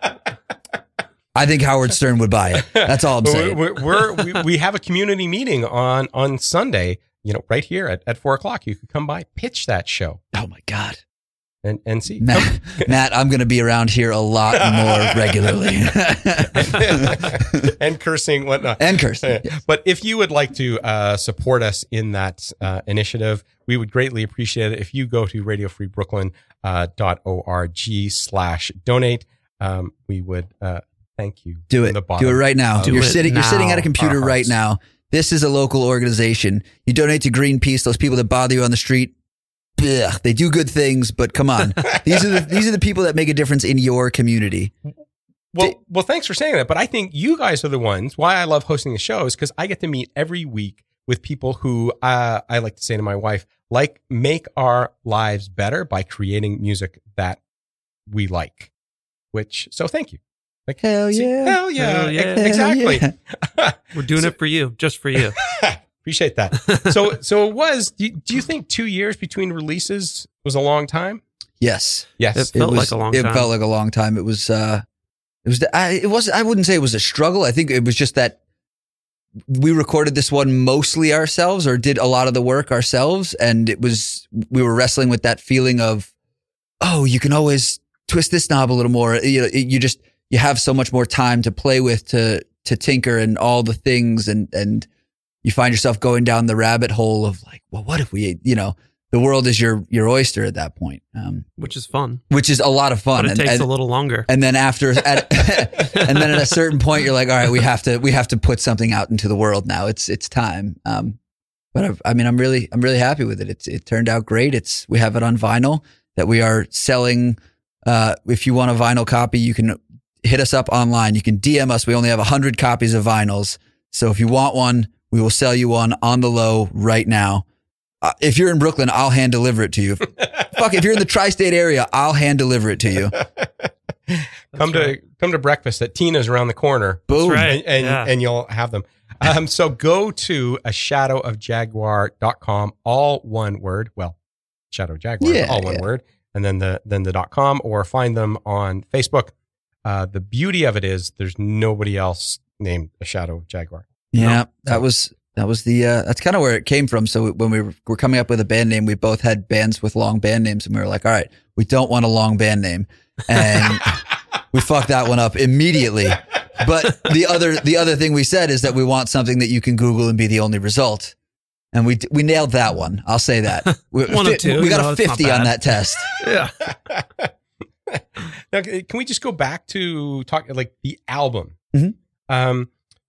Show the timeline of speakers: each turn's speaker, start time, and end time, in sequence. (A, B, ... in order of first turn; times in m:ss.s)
0:01.4-0:03.7 A
0:02.6-0:10.2 B
0:10.3-0:11.0 A
0:11.6-0:12.9 B
0:12.2-0:17.7 A
0:14.6-0:15.3 B
0:16.5-0:33.1 B
0:18.8-0:19.5 A
0:31.7-0:39.1 A
0:32.8-0:33.9 C
0:34.0-0:34.5 B
0:39.8-0:44.7 A
0:45.5-0:57.4 B
0:58.1-0:58.7 B
0:59.3-1:04.3 B
1:00.8-1:01.6 A
1:01.8-1:02.5 C
1:02.4-1:03.1 A
1:03.9-1:05.4 C
1:05.5-1:11.2 B
1:11.6-1:14.8 A
1:12.2-1:12.5 B
1:12.4-1:13.5 C
1:15.4-1:18.4 A
1:19.5-1:26.1 A
1:26.8-1:34.9 A
1:35.4-1:41.4 A
1:41.6-1:42.2 C
1:42.3-1:43.7 A
1:43.2-1:44.3 C
1:44.3-1:51.2 A
1:46.1-1:46.4 C
1:51.7-2:07.5 A
2:08.0-2:13.2 A
2:13.4-2:24.2 B
2:14.6-2:14.9 C
2:17.1-2:17.6 A
2:17.2-2:18.1 C
2:24.7-2:29.3 B
2:25.2-2:25.8 A
2:29.8-2:34.8 B
2:34.1-2:51.2 A
2:51.7-2:56.1 A
2:53.7-2:55.7 C
2:56.2-2:56.6 C
2:56.7-2:57.3 B
2:57.9-3:01.6 B
3:02.3-3:02.7 B